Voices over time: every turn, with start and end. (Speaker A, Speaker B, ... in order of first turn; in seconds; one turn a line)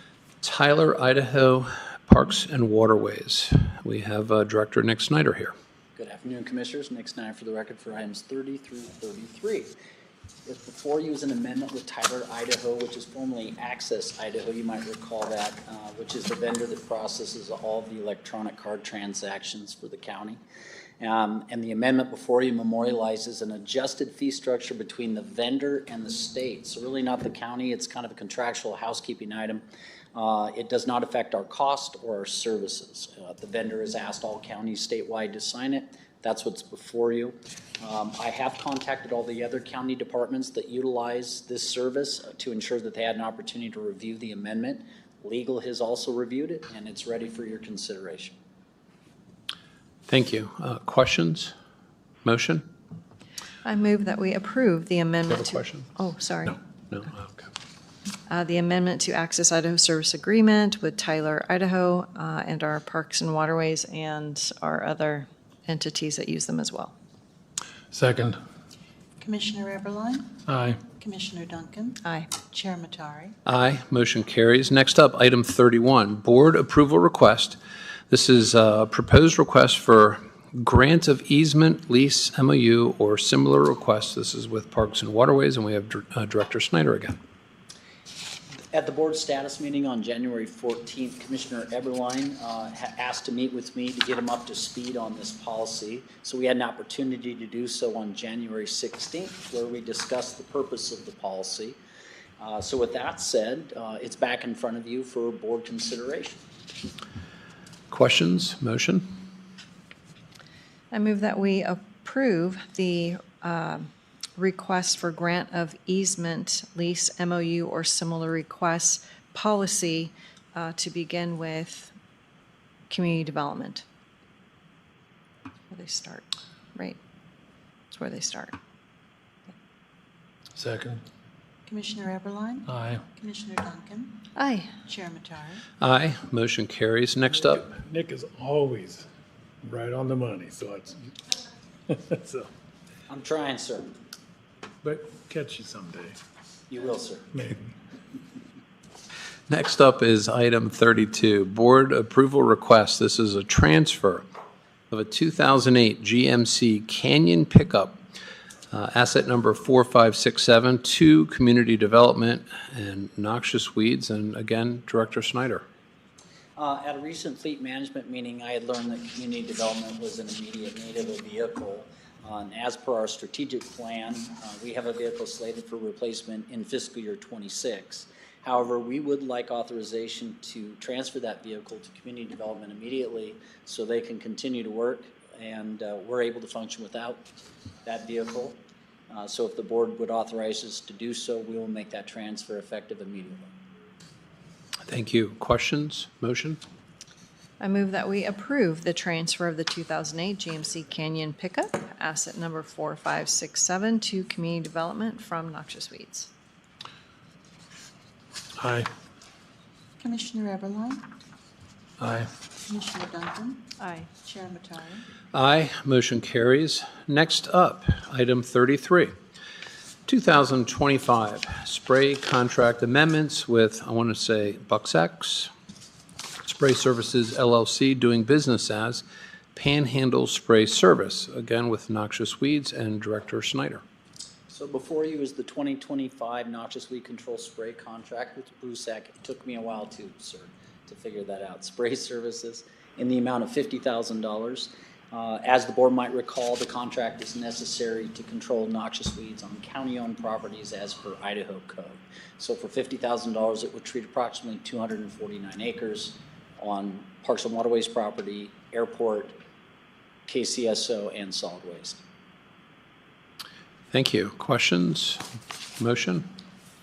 Speaker A: 0.4-5.5
Speaker B: 6.0-9.7
Speaker B: 10.5-20.4
Speaker B: 21.0-48.4
Speaker A: 50.1-51.5
Speaker A: 52.2-52.7
Speaker C: 53.6-56.6
Speaker A: 55.4-55.9
Speaker C: 58.3-66.9
Speaker D: 67.9-68.4
Speaker E: 69.2-73.3
Speaker D: 70.5-70.8
Speaker C: 72.0-72.3
Speaker A: 73.5-77.6
Speaker A: 78.1-87.2
Speaker B: 88.7-101.8
Speaker B: 102.4-106.4
Speaker A: 107.9-109.1
Speaker C: 110.9-121.9
Speaker C: 122.9-123.8
Speaker C: 125.7-127.0
Speaker C: 127.9-128.6
Speaker D: 130.6-131.0
Speaker E: 131.7-134.3
Speaker D: 132.7-133.1
Speaker C: 134.4-134.7
Speaker E: 134.8-135.6
Speaker A: 135.8-137.7
Speaker D: 137.4-139.1
Speaker D: 139.6-141.1
Speaker D: 141.9-142.5
Speaker B: 143.1-144.0
Speaker D: 144.8-146.2
Speaker B: 146.7-147.3
Speaker D: 147.3-147.7
Speaker A: 149.5-154.3
Speaker A: 154.9-158.0
Speaker A: 158.7-165.6
Speaker B: 166.6-187.3
Speaker B: 187.8-193.5
Speaker A: 194.9-196.6
Speaker C: 197.6-206.3
Speaker D: 208.6-208.9
Speaker E: 210.0-211.1
Speaker D: 212.0-212.3
Speaker E: 212.7-215.1
Speaker C: 213.8-214.1
Speaker A: 215.3-219.1
Speaker A: 220.1-225.5
Speaker A: 226.4-233.8
Speaker B: 234.5-259.4
Speaker B: 260.3-262.0
Speaker A: 263.9-265.2
Speaker A: 265.8-266.3